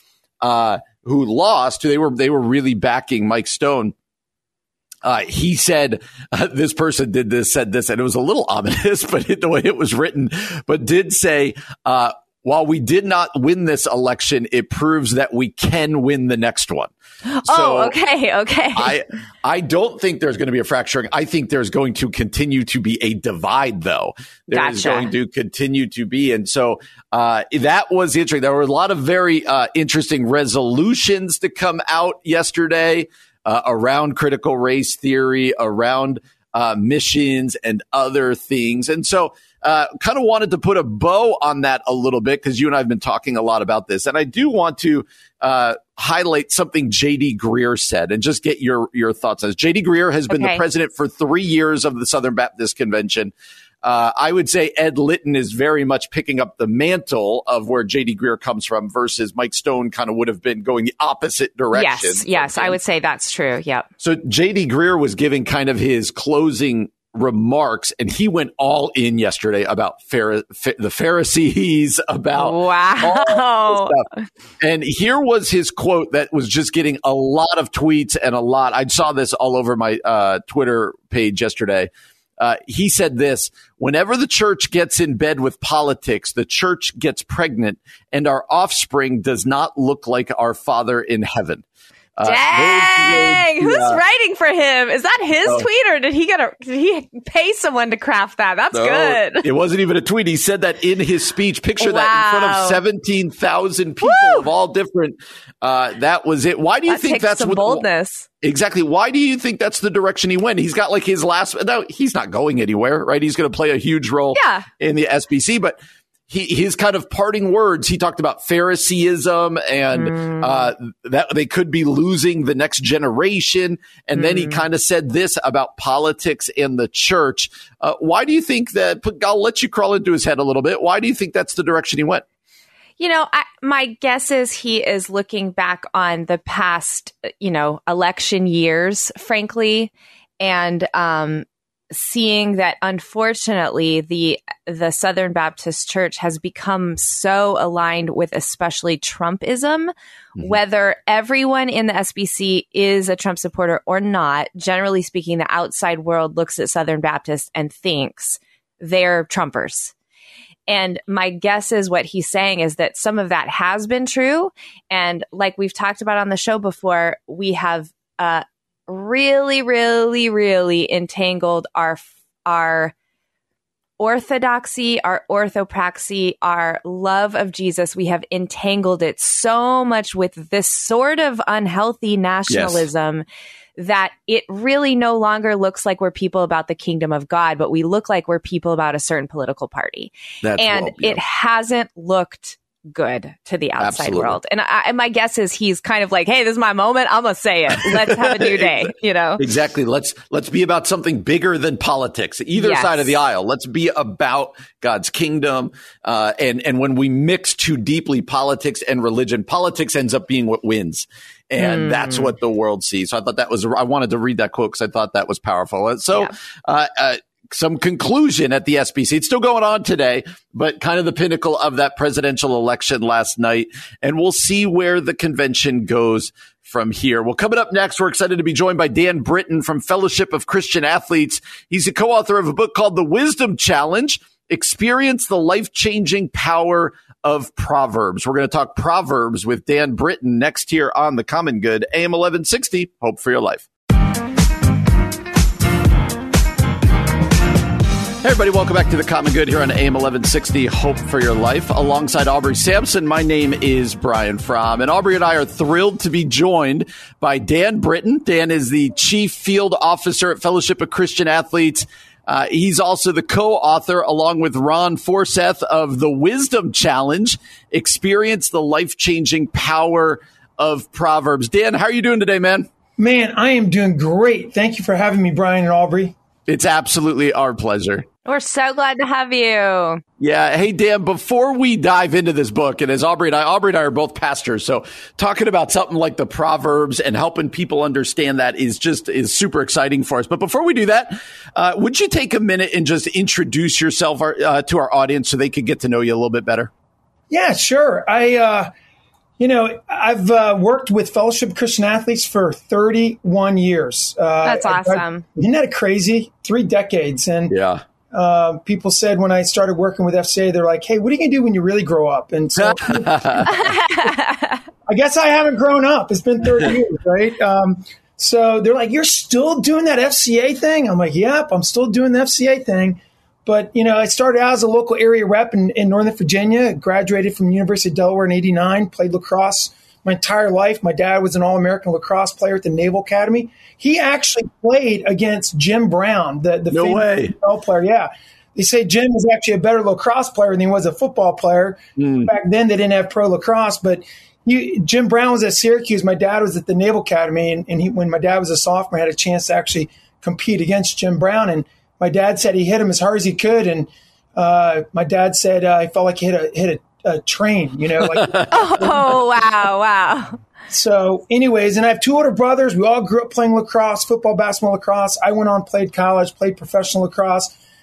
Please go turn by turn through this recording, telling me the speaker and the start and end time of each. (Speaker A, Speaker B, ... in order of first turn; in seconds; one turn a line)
Speaker A: 0.4-3.9
Speaker A: 5.0-16.9
Speaker B: 17.3-18.9
Speaker A: 17.5-17.9
Speaker A: 18.7-53.3
Speaker B: 24.5-25.1
Speaker B: 50.3-50.6
Speaker A: 53.8-62.8
Speaker B: 61.7-63.9
Speaker A: 64.0-74.0
Speaker B: 72.3-74.2
Speaker A: 74.6-91.6
Speaker A: 92.2-94.0
Speaker B: 92.2-99.5
Speaker A: 98.7-107.8
Speaker B: 101.8-102.8
Speaker B: 104.0-104.5
Speaker B: 106.9-108.2
Speaker A: 108.4-115.8
Speaker B: 114.3-114.7
Speaker A: 116.3-132.2
Speaker B: 119.9-120.7
Speaker B: 124.1-124.6
Speaker B: 133.0-159.9
Speaker B: 160.7-172.9
Speaker B: 174.0-183.2
Speaker A: 182.5-182.9
Speaker B: 183.8-199.4
Speaker A: 190.4-191.2
Speaker A: 193.8-194.4
Speaker A: 197.8-198.8
Speaker A: 199.4-243.7
Speaker B: 202.6-203.1
Speaker B: 211.6-212.3
Speaker A: 248.2-272.7
Speaker C: 273.0-276.1
Speaker A: 276.5-278.1
Speaker B: 278.2-280.0
Speaker A: 280.2-296.7
Speaker C: 297.3-298.7
Speaker C: 299.4-307.5
Speaker B: 304.4-305.2
Speaker A: 307.5-307.8
Speaker C: 308.1-313.6
Speaker A: 312.6-313.6
Speaker B: 313.5-314.6
Speaker C: 314.9-359.0
Speaker A: 336.7-337.3
Speaker A: 342.0-342.3
Speaker A: 358.1-358.5
Speaker B: 358.5-360.4
Speaker C: 360.7-367.5